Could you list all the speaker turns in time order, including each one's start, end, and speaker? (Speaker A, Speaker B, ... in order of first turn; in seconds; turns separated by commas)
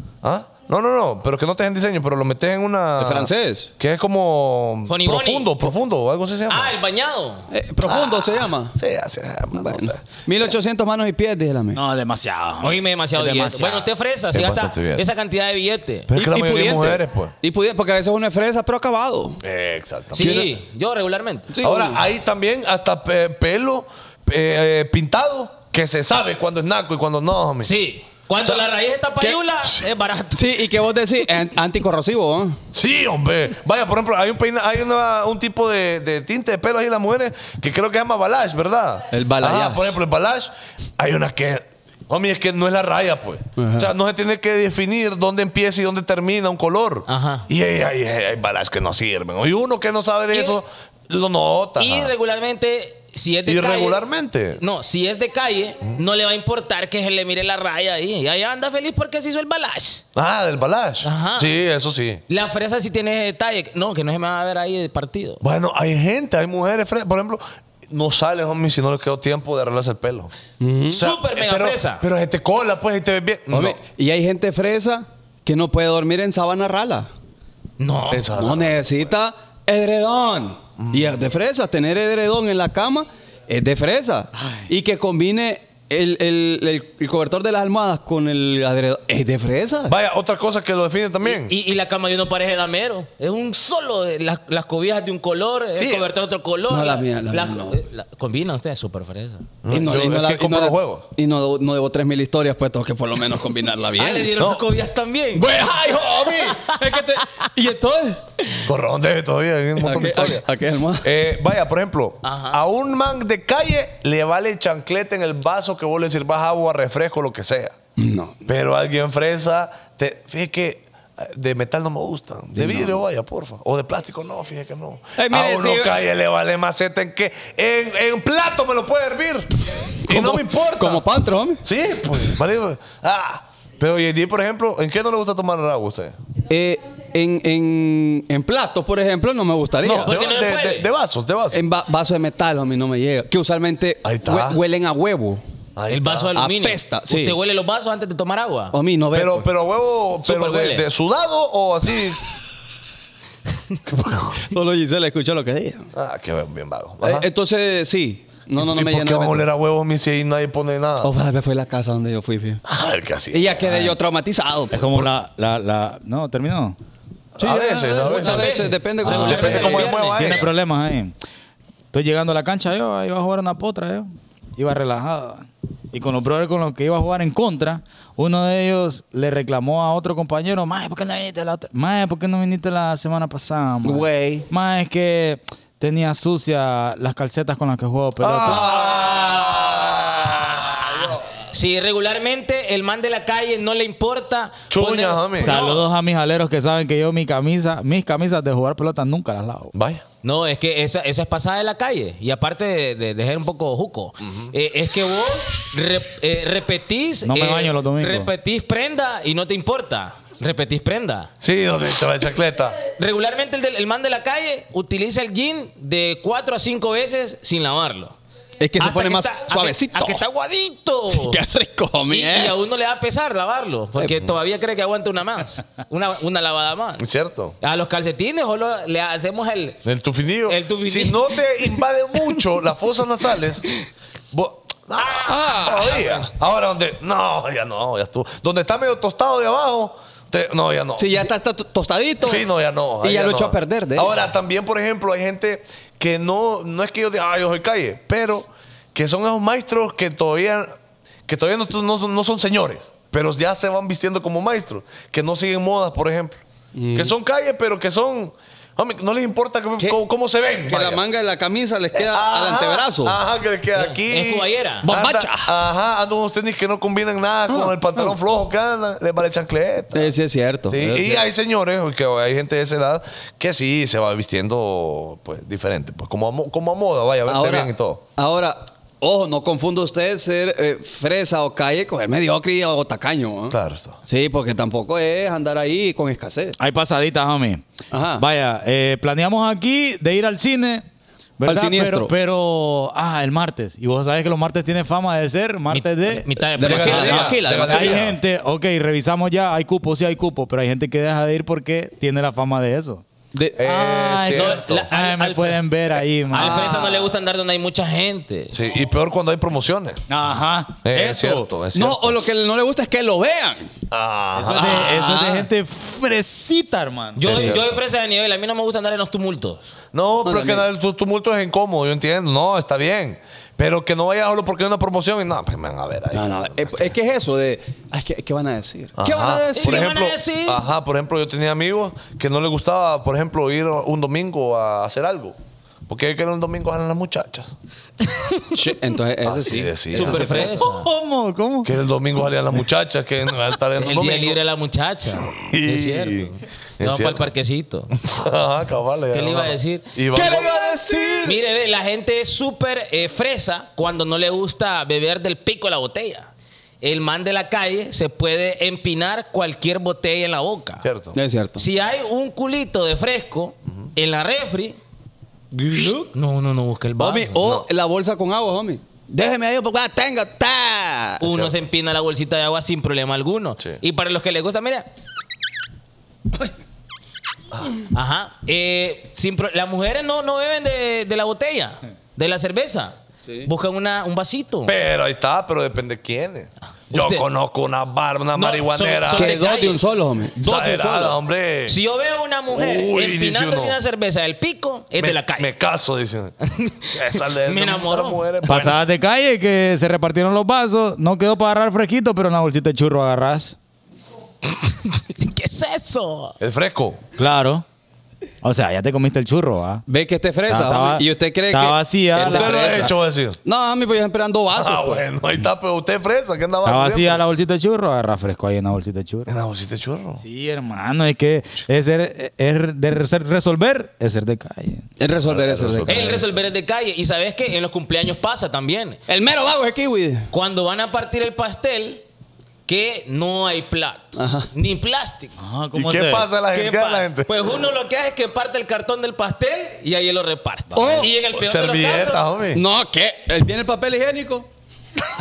Speaker A: 0.2-6.7, Speaker B: 3.0-3.7, Speaker C: 4.9-5.7, Speaker C: 6.5-7.5, Speaker B: 7.5-8.8, Speaker A: 7.8-10.0, Speaker B: 9.5-11.8, Speaker D: 11.7-13.9, Speaker C: 12.6-16.1, Speaker A: 14.3-15.0, Speaker A: 16.1-17.3, Speaker B: 16.1-19.4, Speaker A: 19.4-20.4, Speaker C: 20.1-21.5, Speaker B: 20.2-20.5, Speaker B: 21.5-22.0, Speaker A: 21.6-27.7, Speaker C: 27.6-30.6, Speaker B: 30.3-32.6, Speaker A: 32.7-52.1, Speaker B: 39.1-40.0, Speaker B: 43.6-43.9, Speaker C: 47.1-47.5, Speaker C: 50.3-50.6, Speaker C: 51.8-54.0, Speaker A: 53.5-54.6, Speaker C: 54.6-60.0, Speaker A: 60.1-62.2, Speaker C: 61.0-61.5, Speaker C: 62.3-65.4, Speaker A: 65.4-70.3, Speaker B: 70.6-71.0, Speaker A: 70.9-73.8, Speaker C: 70.9-72.0, Speaker B: 73.5-77.1, Speaker C: 77.8-78.3, Speaker A: 78.1-78.9, Speaker B: 78.3-89.9, Speaker A: 80.8-81.2, Speaker A: 89.9-91.5, Speaker C: 91.2-99.5, Speaker A: 95.8-96.1, Speaker B: 96.7-97.8, Speaker A: 99.6-101.0, Speaker B: 99.7-104.3, Speaker C: 103.9-107.2, Speaker A: 104.3-104.6, Speaker B: 105.3-108.3, Speaker A: 108.6-110.5, Speaker B: 109.8-111.1, Speaker A: 111.0-117.7, Speaker C: 112.2-112.6, Speaker B: 118.0-118.4, Speaker A: 118.5-129.5, Speaker B: 122.5-123.0, Speaker B: 125.2-126.0, Speaker A: 130.1-131.0, Speaker B: 130.1-131.6, Speaker A: 131.6-136.2, Speaker B: 136.4-140.2, Speaker A: 139.8-141.6, Speaker C: 140.0-140.9, Speaker B: 141.5-145.4, Speaker A: 144.0-144.6, Speaker A: 145.8-146.3, Speaker C: 145.9-148.7, Speaker B: 146.3-147.4, Speaker B: 148.7-149.5, Speaker A: 149.1-152.2, Speaker C: 150.2-150.8, Speaker A: 153.8-154.4, Speaker B: 154.4-155.9, Speaker A: 155.9-157.3, Speaker B: 157.0-159.4, Speaker A: 158.6-161.1, Speaker B: 161.0-162.6, Speaker A: 162.7-163.9, Speaker B: 163.3-164.8, Speaker D: 164.7-166.8, Speaker A: 167.3-170.5, Speaker B: 167.4-169.9, Speaker C: 168.0-170.5, Speaker D: 169.1-171.1, Speaker D: 171.9-188.7, Speaker B: 183.8-184.5, Speaker A: 188.2-191.2, Speaker C: 188.8-189.7, Speaker C: 191.4-195.8, Speaker A: 194.7-195.6, Speaker D: 195.4-199.7, Speaker A: 199.7-200.0, Speaker C: 200.2-211.3, Speaker D: 207.2-208.3, Speaker A: 211.4-212.8, Speaker C: 212.8-218.2, Speaker B: 218.6-220.2, Speaker C: 218.8-221.4, Speaker B: 221.1-222.6, Speaker C: 222.1-227.0, Speaker A: 227.0-227.5, Speaker C: 227.6-229.8, Speaker A: 229.8-233.7, Speaker C: 230.4-231.8, Speaker A: 234.3-241.3, Speaker C: 235.0-236.2, Speaker B: 235.2-236.1, Speaker B: 241.0-242.5, Speaker A: 242.2-250.7, Speaker B: 243.0-244.1, Speaker A: 251.3-256.4, Speaker B: 256.7-257.1, Speaker A: 256.9-261.0, Speaker B: 260.6-263.2, Speaker A: 261.9-270.1, Speaker C: 263.7-264.9, Speaker B: 264.8-265.5, Speaker B: 267.5-268.1, Speaker B: 269.9-271.2, Speaker A: 270.7-278.0, Speaker B: 277.2-286.6, Speaker A: 283.5-284.0, Speaker D: 286.6-287.6, Speaker B: 287.9-288.2, Speaker D: 288.2-290.8, Speaker D: 291.4-303.0, Speaker B: 291.4-292.1, Speaker C: 295.7-297.4, Speaker B: 296.6-298.0, Speaker A: 296.6-298.1, Speaker B: 303.3-303.6, Speaker A: 303.6-304.9, Speaker D: 303.6-306.7, Speaker C: 304.2-305.6, Speaker C: 306.3-308.5, Speaker B: 306.3-307.1, Speaker A: 308.5-310.0, Speaker D: 310.1-311.5, Speaker A: 310.8-312.2, Speaker B: 311.7-313.7, Speaker A: 313.9-315.0, Speaker D: 314.3-317.6, Speaker B: 314.5-315.4, Speaker C: 317.1-319.7, Speaker A: 317.2-317.8, Speaker A: 319.9-326.9, Speaker B: 320.2-320.6, Speaker B: 326.1-329.9, Speaker A: 329.0-337.5, Speaker C: 329.6-330.6, Speaker B: 338.5-340.6, Speaker A: 339.2-340.6, Speaker C: 339.9-340.9, Speaker D: 340.6-341.7, Speaker A: 341.6-344.4, Speaker C: 343.8-347.9, Speaker A: 345.1-347.3, Speaker A: 347.9-350.6, Speaker C: 349.1-349.9, Speaker B: 350.1-351.4, Speaker C: 351.2-356.3, Speaker C: 356.8-360.8, Speaker A: 360.8-361.2, Speaker B: 361.1-361.6, Speaker C: 361.6-364.8, Speaker B: 365.5-366.1, Speaker C: 366.1-367.4, Speaker B: 367.0-371.2, Speaker A: 367.4-367.7, Speaker C: 371.2-374.9, Speaker A: 371.2-371.5, Speaker C: 377.9-384.7, Speaker A: 384.6-389.4, Speaker C: 386.9-387.2, Speaker C: 388.3-389.8, Speaker B: 389.1-391.2, Speaker A: 390.4-391.8, Speaker C: 391.7-395.5, Speaker A: 392.5-393.8, Speaker A: 395.0-396.4, Speaker C: 396.4-398.5, Speaker A: 396.9-398.8, Speaker D: 398.4-403.6, Speaker C: 404.5-406.4, Speaker A: 406.4-407.0, Speaker D: 407.2-407.6, Speaker D: 408.4-409.8, Speaker B: 409.9-415.0, Speaker D: 410.5-412.8, Speaker A: 412.2-413.4, Speaker A: 414.5-417.2, Speaker D: 416.6-419.3, Speaker A: 419.3-420.2, Speaker D: 420.2-424.9, Speaker B: 425.0-426.2, Speaker A: 425.2-426.4, Speaker C: 425.9-429.0, Speaker B: 429.1-430.3, Speaker C: 430.3-432.0, Speaker C: 432.7-435.4, Speaker B: 434.1-434.5, Speaker D: 435.4-436.3, Speaker A: 435.7-437.5, Speaker C: 436.5-442.2, Speaker B: 440.7-441.1, Speaker D: 440.7-441.0, Speaker A: 441.2-442.6, Speaker B: 442.5-444.5